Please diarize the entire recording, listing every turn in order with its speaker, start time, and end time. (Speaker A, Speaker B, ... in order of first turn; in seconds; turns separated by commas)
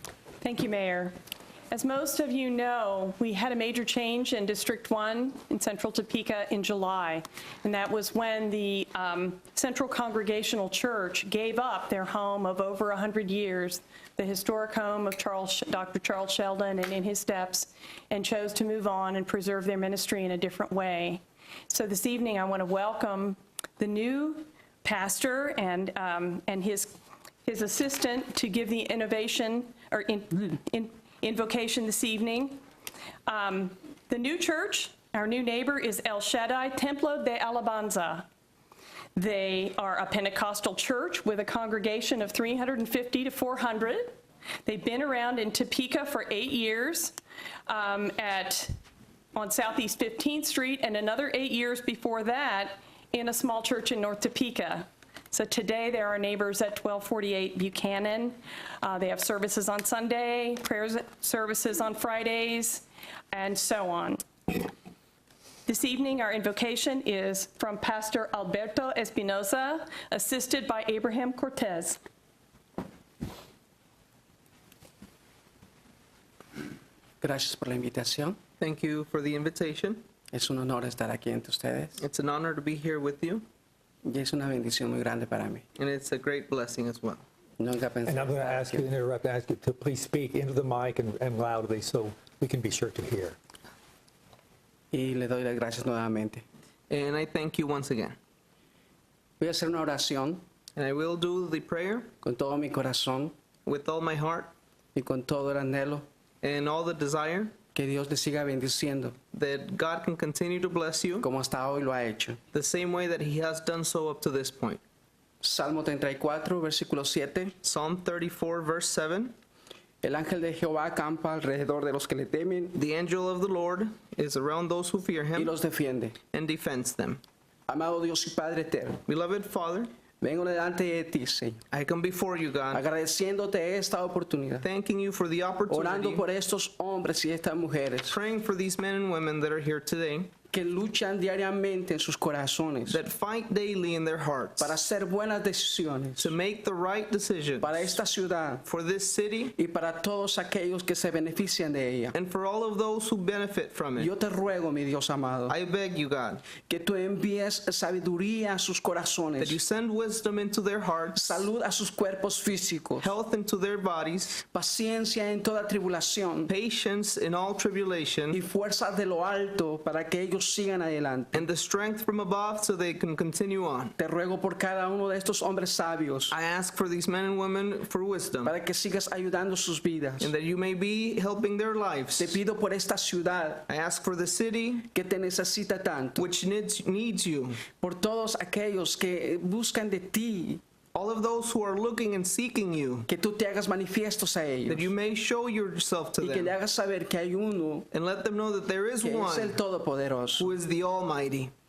Speaker A: 0.4-1.2, Speaker A: 1.7-26.9, Speaker A: 27.4-32.6, Speaker A: 33.3-38.3, Speaker A: 39.1-48.7, Speaker A: 49.4-64.2, Speaker A: 65.7-72.0, Speaker B: 77.2-78.4, Speaker C: 78.6-80.0, Speaker B: 80.3-82.0, Speaker C: 82.0-83.5, Speaker B: 84.0-85.7, Speaker C: 85.8-87.2, Speaker B: 87.6-88.9, Speaker D: 88.1-93.3, Speaker B: 94.9-96.4, Speaker C: 96.9-98.2, Speaker B: 99.4-100.4, Speaker C: 100.8-102.1, Speaker B: 102.2-103.3, Speaker C: 103.7-104.5, Speaker B: 104.9-106.0, Speaker C: 106.4-107.5, Speaker B: 107.7-109.2, Speaker C: 109.3-111.2, Speaker B: 111.2-112.4, Speaker C: 112.5-114.8, Speaker B: 115.4-117.6, Speaker C: 117.6-119.3, Speaker B: 120.0-122.8, Speaker C: 122.8-125.5, Speaker B: 125.3-126.2, Speaker C: 126.3-127.2, Speaker B: 127.7-129.0, Speaker C: 129.1-129.9, Speaker B: 130.2-131.6, Speaker C: 131.7-132.8, Speaker B: 132.7-134.7, Speaker C: 134.6-136.2, Speaker B: 135.7-138.2, Speaker C: 138.1-140.3, Speaker B: 140.5-143.0, Speaker C: 142.9-144.7, Speaker B: 144.6-146.3, Speaker C: 146.2-147.8, Speaker B: 147.6-148.7, Speaker C: 148.7-149.5, Speaker B: 149.6-152.1, Speaker C: 152.1-154.1, Speaker B: 153.9-155.6, Speaker C: 155.5-156.5, Speaker B: 156.6-159.6, Speaker C: 159.4-161.4, Speaker B: 161.2-163.1, Speaker C: 163.0-164.4, Speaker B: 164.5-166.5, Speaker C: 166.5-168.4, Speaker B: 168.3-171.4, Speaker C: 171.3-173.9, Speaker B: 174.0-176.3, Speaker C: 176.3-178.5, Speaker B: 178.4-180.3, Speaker C: 180.2-182.4, Speaker B: 182.2-183.7, Speaker C: 183.7-184.8, Speaker B: 184.9-186.2, Speaker C: 186.2-187.6, Speaker B: 187.8-190.6, Speaker C: 190.9-193.1, Speaker B: 193.1-194.9, Speaker C: 194.7-196.5, Speaker B: 196.2-197.9, Speaker C: 197.9-199.6, Speaker B: 199.0-200.5, Speaker C: 200.4-201.5